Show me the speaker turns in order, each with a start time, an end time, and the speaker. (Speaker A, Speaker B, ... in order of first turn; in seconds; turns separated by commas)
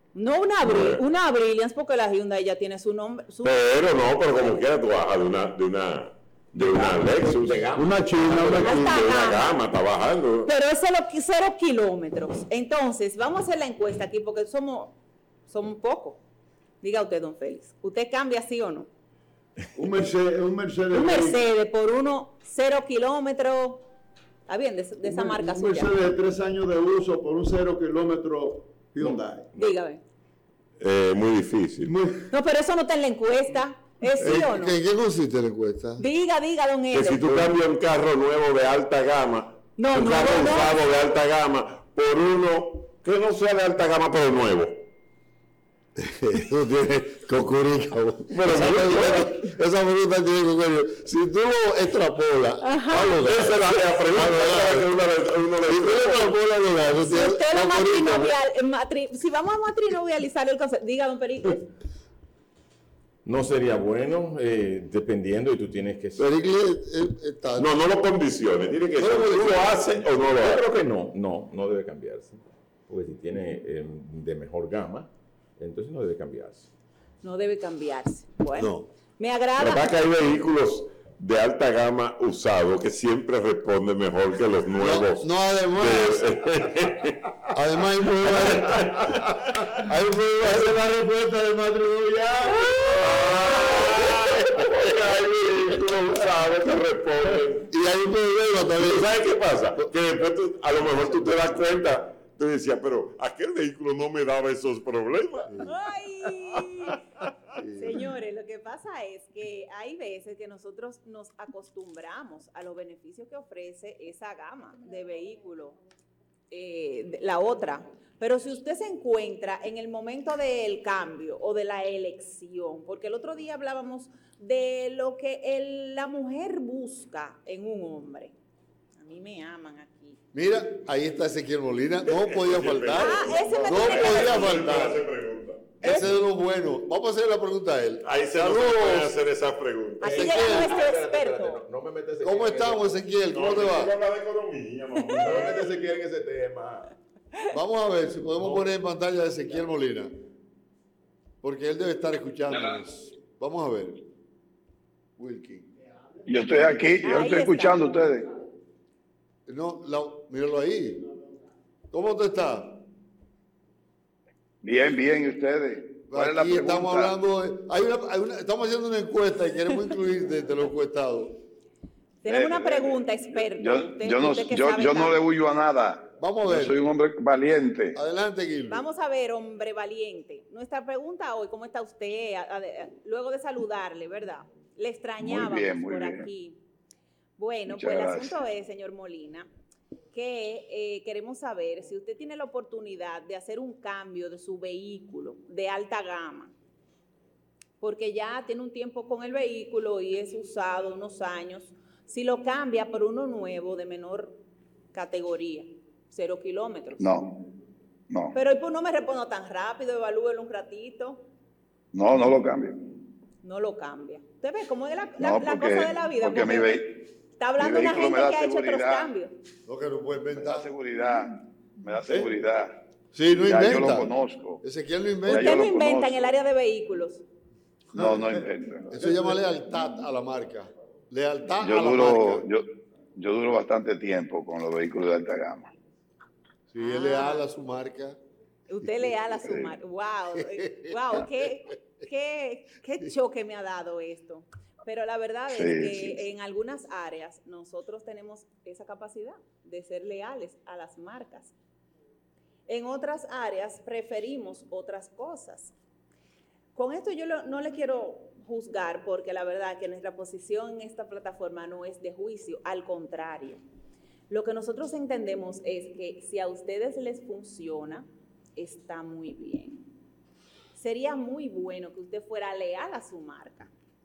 Speaker A: 0.1-3.7, Speaker B: 0.6-1.0, Speaker B: 3.4-10.5, Speaker C: 6.5-7.7, Speaker A: 8.6-9.6, Speaker A: 10.4-16.2, Speaker A: 16.8-18.9, Speaker D: 19.7-21.4, Speaker A: 20.9-23.9, Speaker A: 24.5-25.9, Speaker D: 25.0-29.5, Speaker A: 29.6-30.0, Speaker B: 30.8-31.9, Speaker D: 31.8-32.3, Speaker A: 32.3-34.8, Speaker E: 34.2-36.0, Speaker A: 36.0-37.3, Speaker B: 36.9-44.8, Speaker E: 37.2-37.5, Speaker A: 39.8-40.8, Speaker E: 46.0-55.0, Speaker B: 48.3-49.4, Speaker A: 52.6-53.1, Speaker B: 52.9-58.3, Speaker E: 55.6-58.2, Speaker A: 57.0-61.7, Speaker C: 63.2-66.3, Speaker E: 66.2-67.9, Speaker B: 67.6-70.6, Speaker C: 68.9-76.7, Speaker A: 77.2-79.9, Speaker E: 78.5-78.9, Speaker B: 79.6-87.0, Speaker E: 84.8-86.3, Speaker E: 87.5-89.1, Speaker E: 89.8-92.7, Speaker B: 90.5-90.7, Speaker B: 93.0-97.7, Speaker E: 97.7-99.1, Speaker B: 98.8-105.5, Speaker E: 105.5-105.8, Speaker A: 105.6-107.0, Speaker E: 107.6-108.0, Speaker A: 107.7-115.8, Speaker A: 116.5-128.3, Speaker A: 129.0-130.2, Speaker E: 130.3-135.1, Speaker B: 132.1-136.0, Speaker A: 132.9-134.6, Speaker A: 135.8-136.1, Speaker E: 135.8-139.0, Speaker B: 138.0-140.2, Speaker A: 140.0-141.6, Speaker E: 140.0-140.9, Speaker C: 140.0-143.1, Speaker E: 142.2-143.9, Speaker B: 143.3-145.5, Speaker C: 145.2-146.9, Speaker E: 147.5-150.1, Speaker C: 148.4-148.7, Speaker E: 151.4-154.0, Speaker E: 155.2-155.7, Speaker F: 156.2-158.3, Speaker A: 157.0-158.1, Speaker E: 159.5-161.1, Speaker E: 161.9-162.8, Speaker F: 164.6-167.2, Speaker E: 166.1-171.4, Speaker A: 172.2-175.2, Speaker F: 172.2-178.0, Speaker E: 176.2-176.8, Speaker E: 177.9-178.8, Speaker A: 178.7-186.6, Speaker F: 185.2-186.3, Speaker A: 187.4-189.5, Speaker F: 187.7-188.4, Speaker A: 190.1-196.5, Speaker A: 197.8-204.4, Speaker A: 204.9-207.0, Speaker F: 207.0-207.4, Speaker F: 208.1-208.3, Speaker A: 208.3-211.2, Speaker F: 211.9-212.8, Speaker A: 213.4-216.7, Speaker F: 215.2-217.0, Speaker A: 217.4-219.3, Speaker F: 217.6-219.1, Speaker E: 219.7-220.7, Speaker F: 220.3-224.6, Speaker E: 223.1-225.7, Speaker A: 225.2-227.2, Speaker F: 225.3-226.3, Speaker F: 227.9-229.1, Speaker E: 228.9-232.5, Speaker F: 231.6-232.6, Speaker F: 233.2-235.7, Speaker E: 236.7-238.2, Speaker A: 236.8-237.4, Speaker A: 238.7-251.5, Speaker F: 239.4-239.7, Speaker F: 245.5-246.2, Speaker A: 252.7-255.7, Speaker A: 256.7-263.6, Speaker A: 264.3-269.9, Speaker A: 270.7-273.7